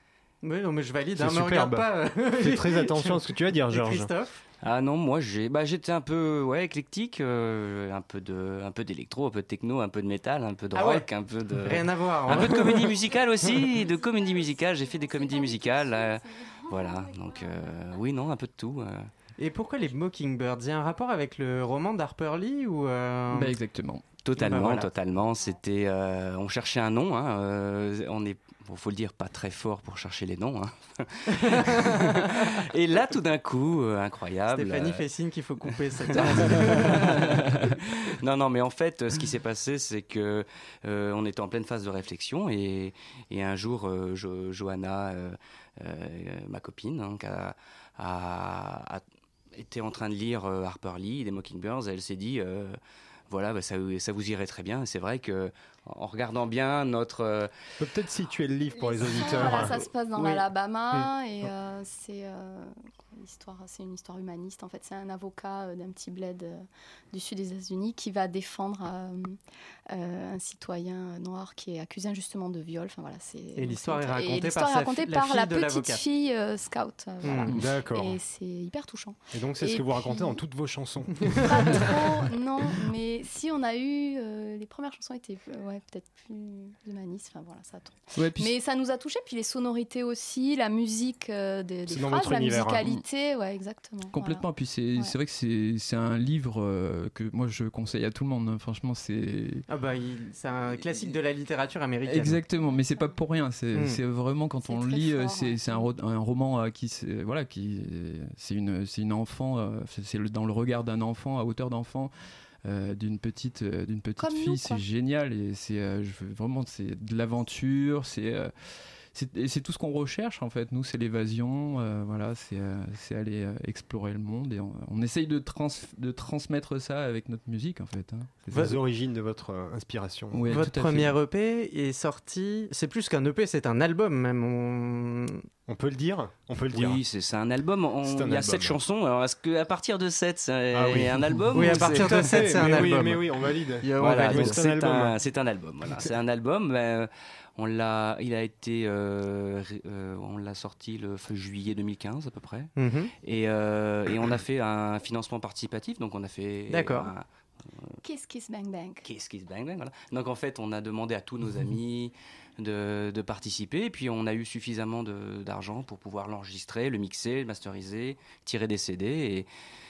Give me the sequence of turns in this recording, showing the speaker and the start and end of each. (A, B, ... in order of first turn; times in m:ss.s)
0:00.4-0:04.4 A
0:01.2-0:04.1 B
0:04.6-0:19.1 C
0:10.7-0:11.1 A
0:11.6-0:12.9 A
0:12.9-0:18.0 D
0:19.4-0:23.6 A
0:23.3-0:24.1 E
0:24.2-0:35.0 C
0:24.4-0:24.9 A
0:31.3-0:32.4 A
0:34.5-0:37.4 A
0:36.1-0:52.8 C
0:53.3-0:57.5 C
0:57.8-0:59.9 B
0:58.8-1:09.4 D
1:09.9-1:20.4 D
1:13.6-1:16.0 A
1:17.2-1:17.6 A
1:17.5-1:18.2 B
1:19.3-1:22.0 B
1:21.4-1:35.2 D
1:28.2-1:28.5 E
1:31.9-1:32.8 B
1:34.1-1:39.6 E
1:39.7-1:42.4 A
1:42.0-1:52.1 E
1:42.5-1:43.2 D
1:43.7-1:44.0 A
1:44.6-1:45.9 D
1:52.6-1:58.5 E
1:54.2-1:54.8 D
1:59.1-2:08.8 E
2:08.5-2:10.5 B
2:10.3-2:11.2 E
2:10.5-2:15.5 A
2:15.7-2:17.0 B
2:16.7-2:22.9 C
2:18.0-2:18.8 B
2:20.7-2:25.2 B
2:21.5-2:23.3 A
2:23.8-2:24.6 A
2:24.0-2:38.0 C
2:32.8-2:33.1 A
2:36.7-2:37.1 A
2:38.0-2:39.0 D
2:39.0-2:49.5 C